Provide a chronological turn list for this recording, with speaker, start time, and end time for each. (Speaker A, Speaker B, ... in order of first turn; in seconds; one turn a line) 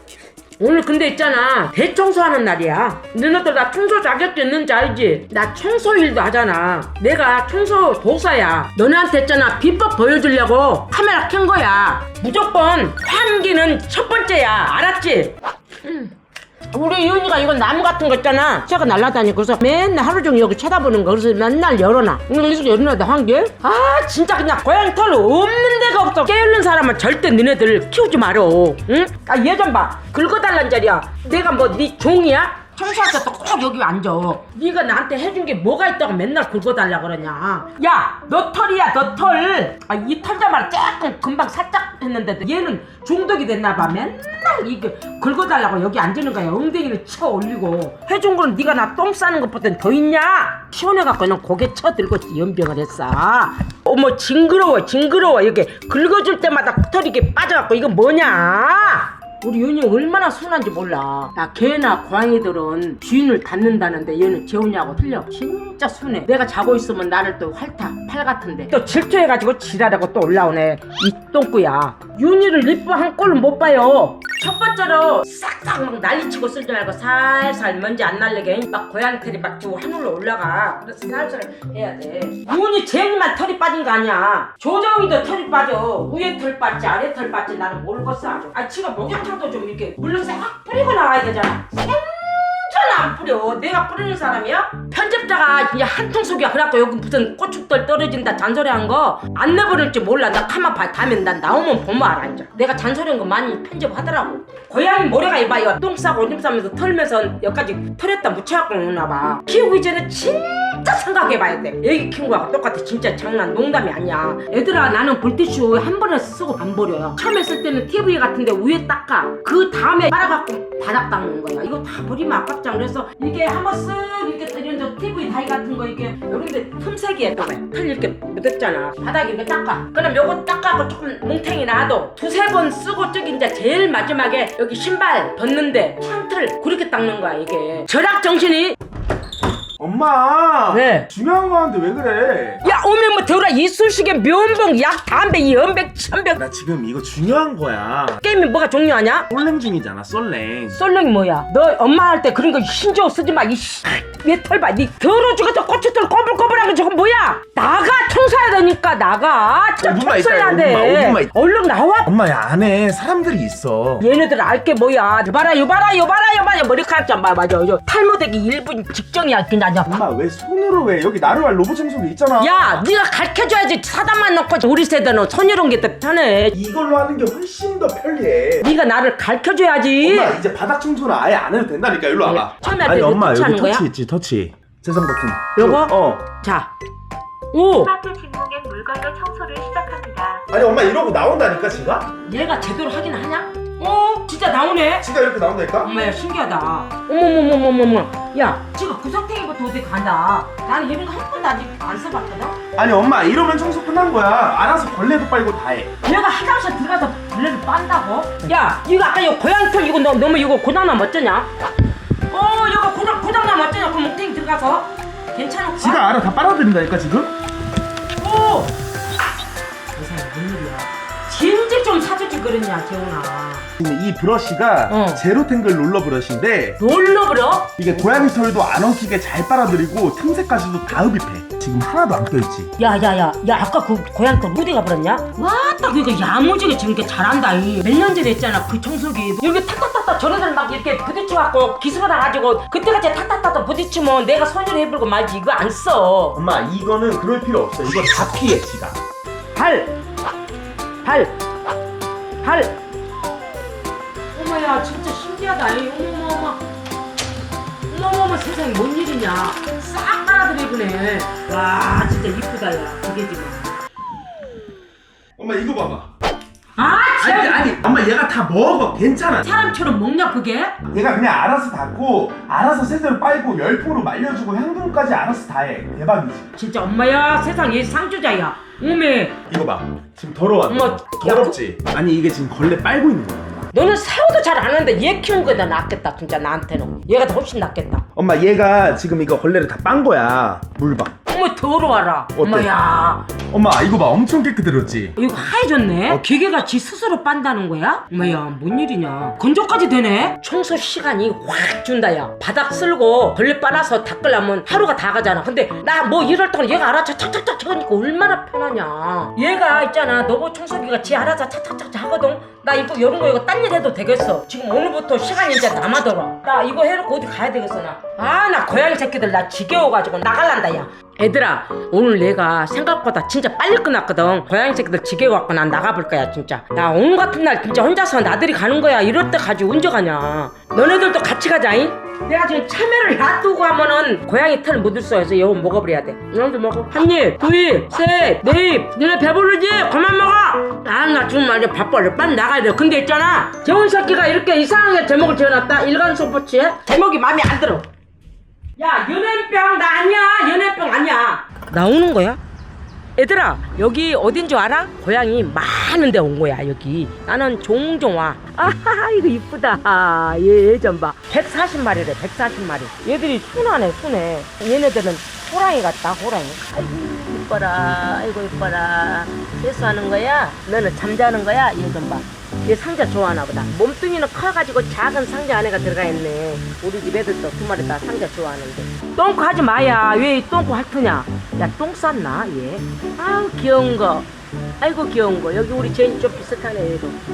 Speaker A: 0.6-16.1
Speaker A: 16.7-138.8
Speaker B: 139.8-142.7
Speaker A: 140.7-141.1
Speaker A: 142.6-146.4
Speaker B: 146.4-148.2
Speaker A: 148.2-149.3
Speaker B: 149.3-150.8
Speaker A: 150.7-162.1
Speaker B: 159.8-161.3
Speaker B: 162.1-164.1
Speaker A: 164.0-169.9
Speaker B: 169.9-172.8
Speaker A: 172.4-176.6
Speaker B: 176.6-178.7
Speaker A: 178.6-180.4
Speaker B: 180.0-186.2
Speaker A: 182.2-183.9
Speaker A: 185.6-186.7
Speaker A: 187.5-188.0
Speaker C: 187.8-190.4
Speaker B: 190.5-192.1
Speaker A: 192.2-195.1
Speaker B: 195.0-195.9
Speaker A: 195.8-202.6
Speaker B: 202.8-205.9
Speaker A: 206.0-211.5
Speaker A: 212.3-216.0
Speaker B: 215.8-217.3
Speaker A: 218.2-218.8
Speaker A: 219.9-223.7
Speaker B: 223.8-226.8
Speaker A: 224.9-225.2
Speaker A: 226.8-227.7
Speaker B: 227.8-232.7
Speaker A: 232.8-246.4
Speaker B: 246.3-249.0
Speaker A: 249.5-249.9
Speaker A: 251.0-251.3
Speaker A: 252.4-252.8
Speaker A: 254.3-256.6
Speaker A: 257.9-263.8
Speaker B: 265.4-266.1
Speaker A: 266.8-267.8
Speaker B: 267.2-269.5
Speaker A: 269.4-270.8
Speaker B: 270.9-276.5
Speaker A: 276.6-279.4
Speaker B: 279.5-283.7
Speaker A: 280.7-281.6
Speaker A: 283.7-288.0
Speaker B: 288.1-291.1
Speaker A: 291.3-293.3
Speaker B: 292.3-292.7
Speaker B: 293.5-295.2
Speaker A: 295.2-347.9
Speaker A: 348.8-352.4
Speaker A: 353.1-384.3
Speaker A: 384.8-387.2